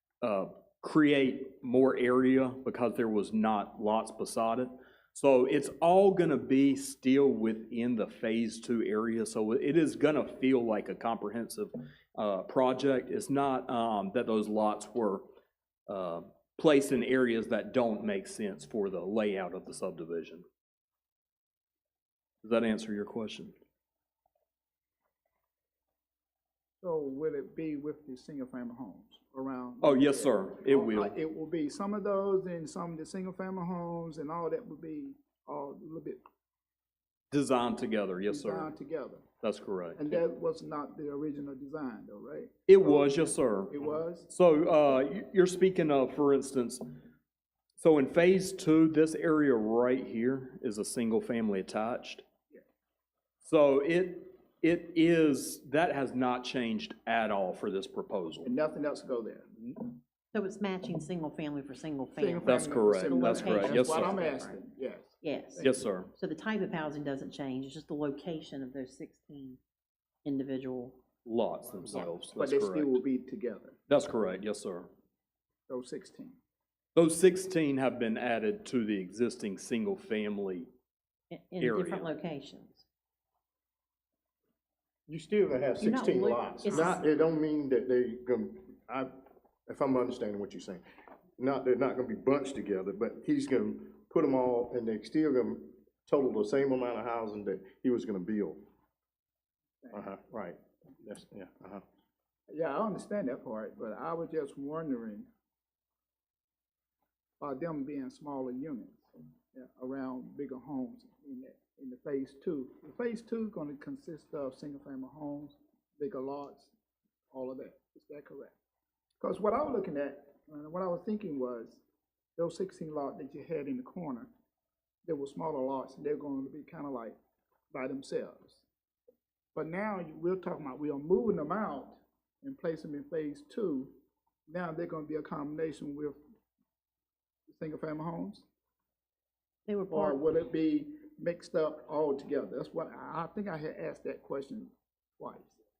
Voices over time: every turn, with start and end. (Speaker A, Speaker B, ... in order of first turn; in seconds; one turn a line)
Speaker A: 0.2-15.2
Speaker A: 15.9-20.4
Speaker A: 22.4-23.5
Speaker B: 26.8-36.2
Speaker A: 29.8-31.1
Speaker A: 37.3-38.7
Speaker B: 38.3-39.2
Speaker A: 39.4-40.2
Speaker B: 40.0-44.3
Speaker A: 42.7-46.8
Speaker A: 47.8-52.2
Speaker A: 53.4-58.5
Speaker B: 58.4-59.8
Speaker C: 60.3-64.6
Speaker B: 62.2-65.8
Speaker A: 62.4-64.2
Speaker C: 65.2-69.6
Speaker A: 65.6-66.1
Speaker C: 70.2-71.0
Speaker A: 71.2-73.0
Speaker C: 71.8-72.2
Speaker B: 72.4-73.8
Speaker A: 73.9-74.9
Speaker B: 75.7-76.4
Speaker A: 76.9-80.7
Speaker C: 81.3-82.8
Speaker A: 81.6-82.1
Speaker D: 85.1-89.1
Speaker C: 85.8-87.0
Speaker D: 89.7-90.8
Speaker D: 91.4-98.6
Speaker D: 99.9-101.8
Speaker B: 102.5-105.3
Speaker B: 107.4-116.7
Speaker B: 117.3-118.5
Speaker B: 119.2-121.8
Speaker B: 122.4-124.3
Speaker B: 125.0-127.2
Speaker B: 127.7-128.6
Speaker B: 129.5-133.9
Speaker B: 134.5-136.2
Speaker B: 137.5-138.4
Speaker C: 139.7-140.2
Speaker B: 139.9-145.6